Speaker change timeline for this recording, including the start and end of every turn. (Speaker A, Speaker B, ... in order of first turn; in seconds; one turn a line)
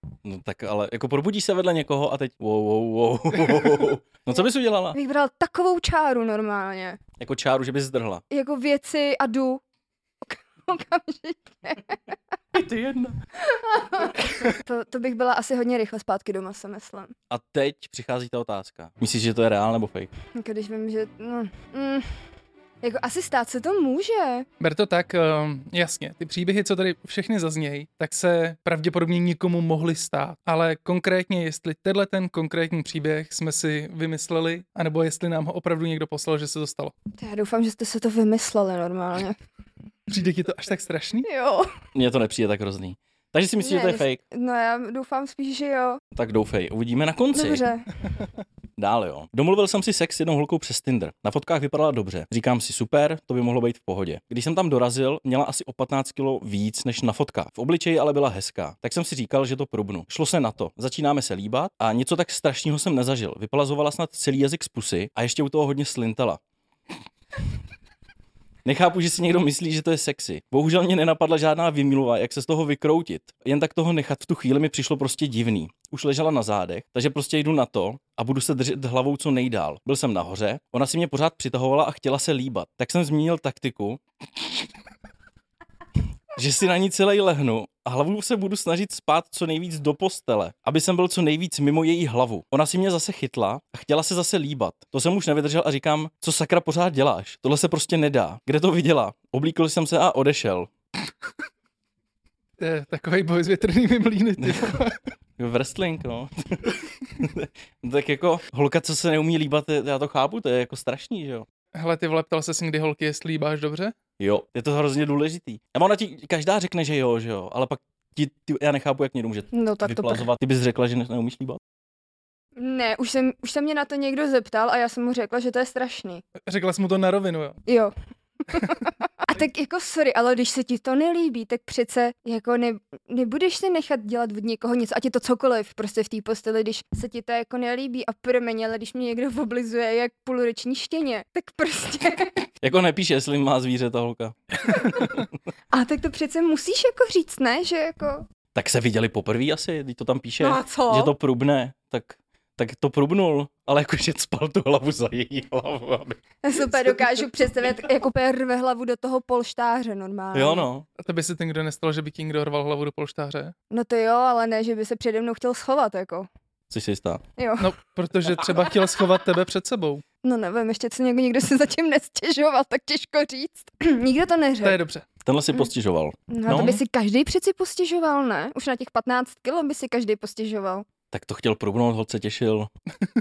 Speaker A: 0.2-5.0
Speaker B: 4.9-7.0
Speaker A: 7.2-8.2
Speaker B: 8.3-9.6
Speaker B: 10.2-12.2
Speaker A: 12.5-13.2
Speaker B: 13.4-17.1
Speaker A: 17.3-20.1
Speaker B: 20.3-22.1
Speaker B: 22.8-24.5
Speaker C: 24.6-36.9
Speaker B: 37.2-39.4
Speaker C: 40.1-41.3
Speaker B: 41.2-41.7
Speaker A: 41.9-44.2
Speaker B: 43.6-46.0
Speaker A: 46.1-47.6
Speaker B: 47.3-47.9
Speaker A: 48.8-66.4
Speaker A: 68.7-84.7
Speaker A: 86.3-100.7
Speaker C: 102.6-105.0
Speaker A: 104.4-104.8
Speaker A: 105.4-111.5
Speaker C: 111.8-113.9
Speaker A: 114.2-121.6
Speaker B: 119.5-120.3
Speaker B: 122.6-126.2
Speaker C: 126.5-127.6
Speaker B: 127.7-127.9
Speaker B: 128.5-142.5
Speaker A: 142.6-145.3
Speaker B: 144.7-145.2
Speaker B: 145.7-148.3
Speaker A: 148.6-156.2
Speaker B: 150.4-151.1
Speaker B: 156.4-160.7
Speaker A: 160.3-160.9
Speaker C: 161.0-163.5
Speaker B: 163.7-166.3
Speaker A: 166.7-167.2
Speaker B: 167.4-167.7
Speaker C: 167.6-170.0
Speaker B: 170.2-174.8
Speaker C: 174.6-175.1
Speaker A: 175.2-176.8
Speaker B: 176.3-180.9
Speaker A: 181.1-182.7